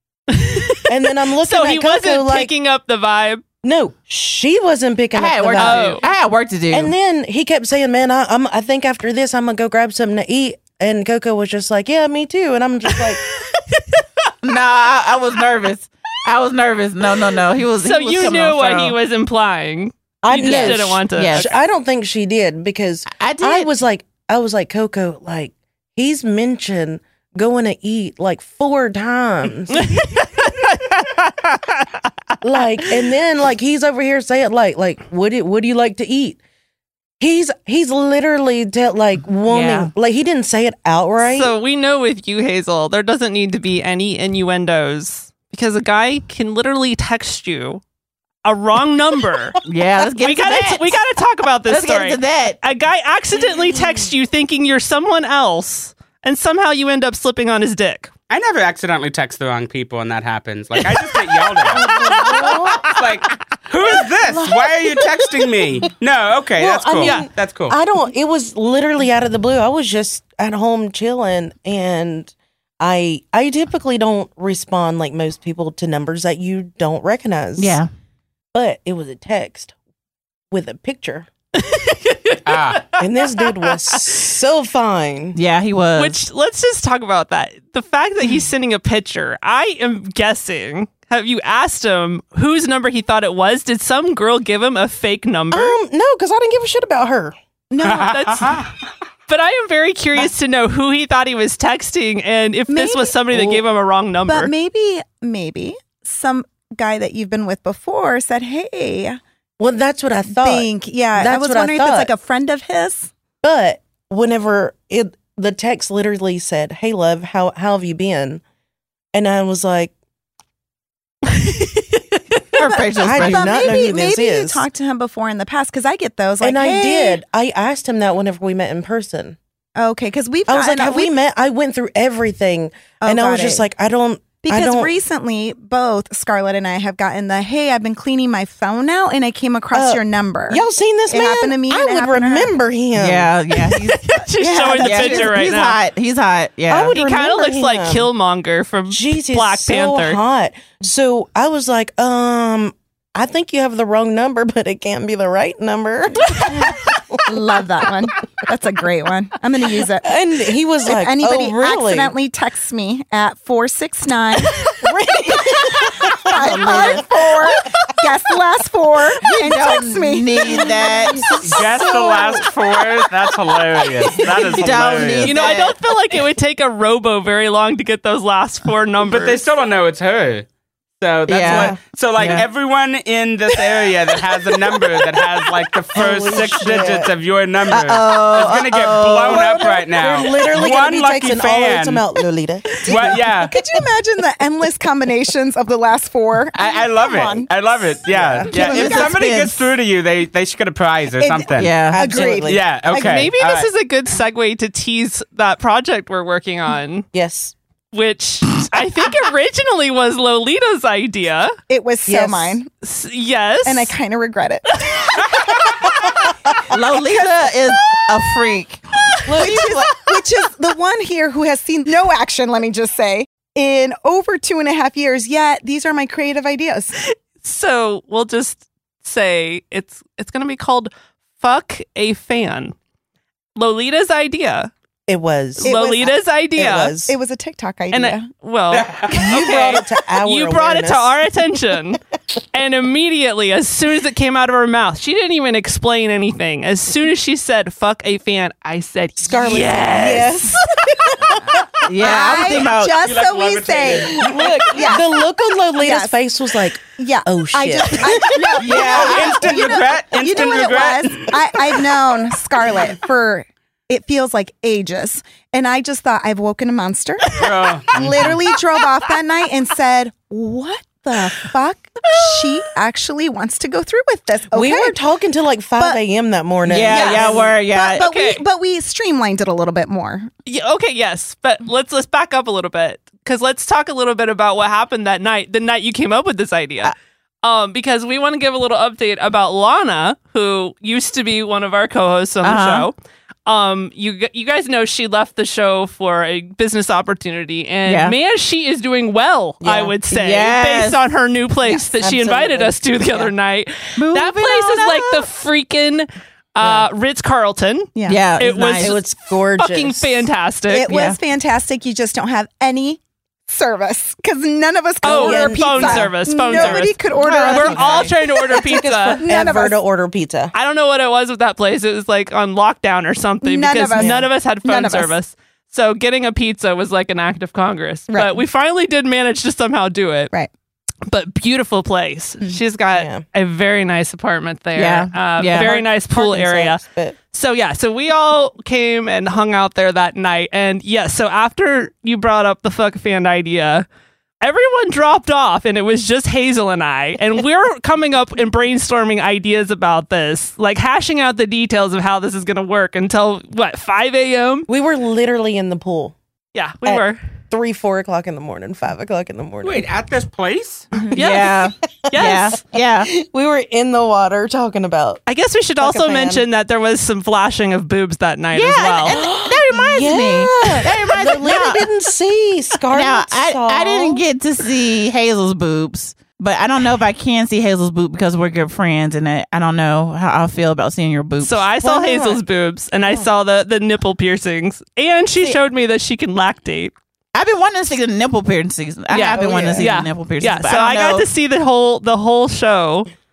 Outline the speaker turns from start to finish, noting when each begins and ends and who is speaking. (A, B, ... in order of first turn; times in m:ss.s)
0:00.3-0:03.4 A
0:00.9-0:02.5 B
0:03.6-0:06.0 B
0:05.1-0:06.9 C
0:05.6-0:06.0 A
0:06.7-0:13.2 B
0:12.9-0:14.3 A
0:14.4-0:19.0 C
0:17.8-0:21.5 A
0:20.2-0:29.9 B
0:20.3-0:21.6 C
0:23.1-0:23.7 C
0:29.7-0:32.6 A
0:32.4-0:36.4 B
0:37.2-0:41.5 B
0:39.5-0:39.9 C
0:41.2-0:47.8 A
0:48.4-0:49.6 A
0:49.7-0:51.0 C
0:50.2-0:58.1 A
0:51.7-0:52.6 C
0:58.3-1:01.9 D
1:01.0-1:03.0 A
1:01.7-1:03.0 B
1:02.9-1:07.8 D
1:04.3-1:05.2 B
1:06.6-1:17.8 B
1:07.0-1:07.3 A
1:17.6-1:17.9 C
1:18.5-1:19.7 B
1:20.5-1:21.3 B
1:21.6-1:24.2 A
1:22.5-1:22.9 D
1:23.0-1:25.4 B
1:25.3-1:26.2 C
1:26.0-1:35.8 A
1:35.5-1:37.4 B
1:37.7-1:38.5 E
1:37.8-1:38.7 D
1:37.9-1:38.7 A
1:39.3-1:44.5 A
1:42.7-1:43.2 E
1:43.3-1:43.6 B
1:44.3-1:49.2 E
1:49.6-1:52.1 B
1:50.3-1:53.1 E
1:53.4-1:58.4 B
1:59.1-1:59.9 B
2:01.3-2:02.0 A
2:02.5-2:03.6 C
2:02.6-2:07.2 E
2:03.0-2:04.7 B
2:06.4-2:09.4 B
2:09.8-2:11.1 E
2:10.5-2:14.9 B
2:13.0-2:13.7 E
2:14.4-2:22.5 E
2:19.7-2:23.3 B
2:23.0-2:24.1 C
2:23.6-2:25.8 A
2:24.4-2:25.4 E
2:24.8-2:27.0 C
2:26.7-2:28.1 B
2:26.9-2:30.2 A
2:28.9-2:37.3 B
2:37.3-2:40.1 E
2:40.0-2:42.1 B
2:40.9-2:44.8 E
2:44.8-2:47.3 B
2:46.3-2:52.4 E
2:46.3-2:47.1 C
2:49.2-2:51.5 C
2:50.4-2:52.5 B
2:51.5-2:55.4 D
2:54.3-2:55.8 C
2:55.2-2:59.4 A
2:59.1-3:00.5 D
3:01.0-3:12.0 D
3:01.3-3:02.4 C
3:01.4-3:01.8 B
3:06.0-3:07.1 B
3:07.7-3:09.6 C
3:09.2-3:13.6 B
3:12.9-3:13.6 D
3:12.9-3:17.5 E
3:16.6-3:23.7 D
3:18.1-3:19.0 B
3:18.5-3:19.1 E
3:18.5-3:19.7 C
3:21.2-3:23.3 E
3:21.6-3:22.3 C
3:21.8-3:22.6 B
3:22.9-3:27.1 A
3:27.1-3:27.6 B
3:27.9-3:31.6 A
3:31.7-3:32.7 E
3:32.1-3:32.6 B
3:32.8-3:33.9 A
3:33.6-3:35.7 E
3:36.7-3:39.9 C
3:39.3-3:39.8 B
3:39.4-3:46.9 E
3:47.0-3:52.8 A
3:53.6-3:54.7 A
3:55.1-3:55.8 B
3:55.6-3:57.0 A
3:55.6-3:56.1 E
3:56.6-3:57.1 B
3:57.1-3:58.3 E
3:57.9-4:02.0 A
3:58.7-3:59.2 D
3:59.1-4:01.3 B
4:02.5-4:11.3 A
4:09.2-4:11.4 B
4:11.9-4:13.0 C
4:12.0-4:15.1 E
4:13.0-4:14.7 D
4:14.1-4:19.3 B
4:15.8-4:16.2 E
4:16.9-4:35.0 E
4:18.6-4:19.4 C
4:18.8-4:21.4 D
4:27.4-4:28.4 D
4:34.5-4:37.5 B
4:36.6-4:38.1 C
4:36.9-4:40.3 E
4:36.9-4:37.3 A
4:38.0-4:38.4 A
4:40.5-4:52.9 A
4:52.4-4:52.9 C
4:53.5-5:10.9 A
4:57.8-4:58.2 C
4:59.6-5:00.0 B
5:00.1-5:01.0 C
5:02.0-5:03.3 B
5:04.0-5:05.3 C
5:06.6-5:06.9 B
5:08.0-5:08.3 E
5:08.1-5:09.0 C
5:08.8-5:10.2 B
5:10.7-5:18.6 E
5:10.9-5:11.2 C
5:15.0-5:19.2 A
5:15.0-5:16.9 B
5:17.1-5:18.1 C
5:18.5-5:20.5 B
5:19.2-5:19.8 E
5:20.5-5:30.3 A
5:23.4-5:25.1 E
5:24.0-5:24.3 B
5:28.1-5:28.4 E
5:31.1-5:43.9 A
5:33.0-5:33.2 B
5:34.8-5:35.8 C
5:35.5-5:37.2 B
5:44.4-5:54.7 A
5:54.7-5:56.2 B
5:56.5-5:57.2 A
5:56.8-5:59.8 B
5:59.6-6:00.9 D
6:01.1-6:02.6 A
6:01.2-6:03.1 C
6:03.0-6:05.2 B
6:05.3-6:09.2 A
6:05.8-6:06.4 B
6:08.5-6:11.9 C
6:09.1-6:14.2 B
6:12.9-6:21.7 C
6:21.4-6:26.9 A
6:21.8-6:22.4 B
6:27.3-6:31.3 C
6:29.1-6:33.1 A
6:29.3-6:29.9 B